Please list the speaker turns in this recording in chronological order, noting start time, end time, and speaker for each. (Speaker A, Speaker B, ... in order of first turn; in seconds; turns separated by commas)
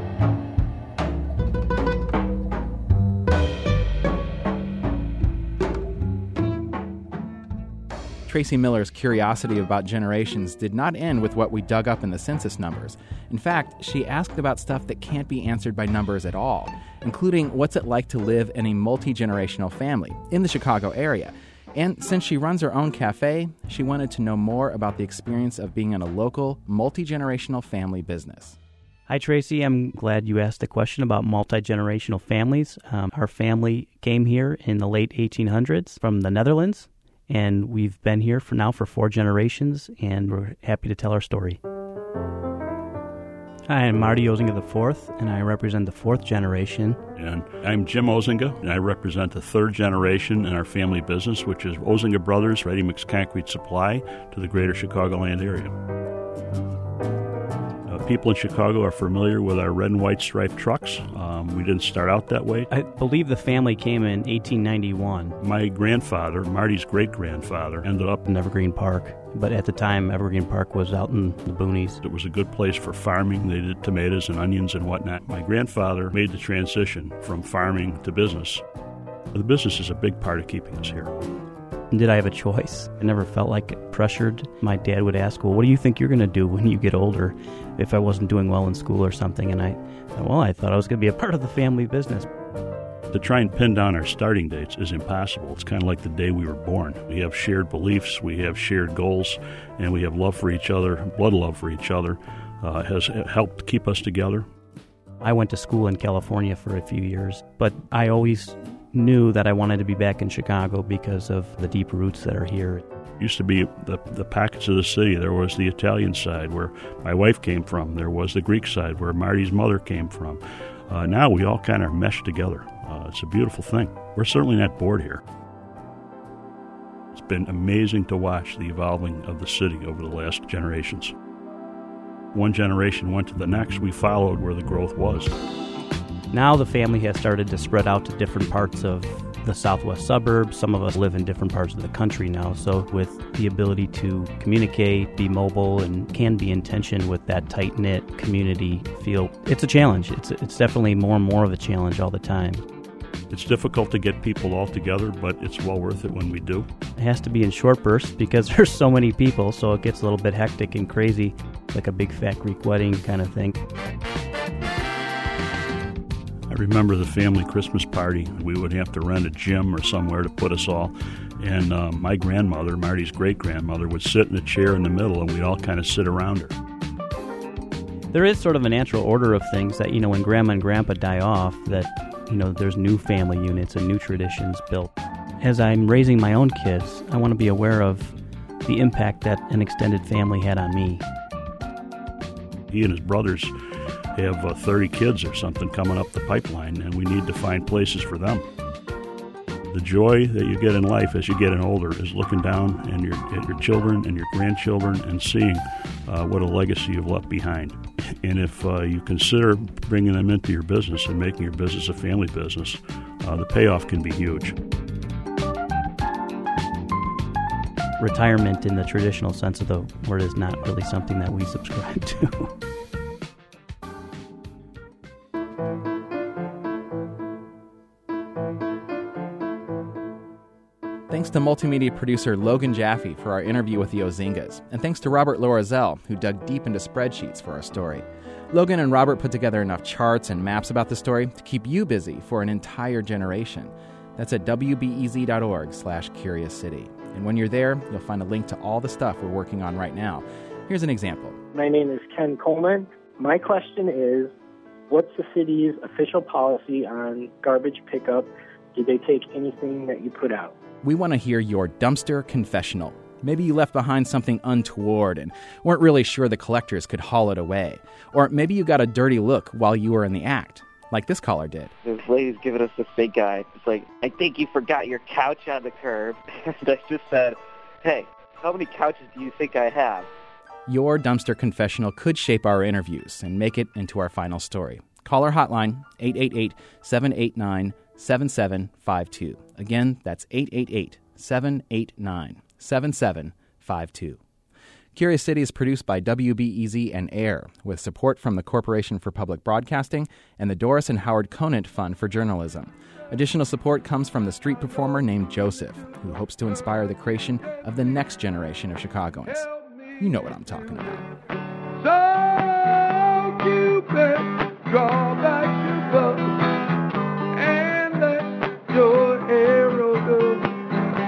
Speaker A: 8.3-28.6, Speaker B: 29.1-41.6, Speaker B: 43.7-47.0, Speaker C: 47.2-55.8, Speaker C: 57.9-62.7, Speaker B: 62.7-65.4, Speaker C: 65.4-68.2, Speaker B: 68.2-72.0, Speaker C: 72.0-78.6, Speaker C: 79.3-81.1, Speaker B: 81.9-92.3, Speaker C: 93.1-104.5, Speaker B: 105.2-112.8, Speaker C: 113.2-125.2, Speaker C: 127.1-131.1, Speaker C: 132.3-135.3, Speaker B: 136.3-152.6, Speaker C: 153.3-156.7, Speaker B: 157.0-163.6, Speaker C: 166.5-176.5, Speaker B: 178.1-188.1, Speaker B: 188.7-191.0, Speaker C: 192.7-193.5, Speaker C: 194.2-198.4, Speaker C: 199.7-214.6, Speaker B: 218.0-222.5, Speaker A: 231.1-251.4, Speaker D: 251.5-254.3, Speaker D: 254.9-260.5, Speaker A: 260.8-271.7, Speaker E: 271.9-280.1, Speaker A: 280.7-294.2, Speaker A: 294.9-311.1, Speaker F: 311.8-316.5, Speaker F: 317.3-320.6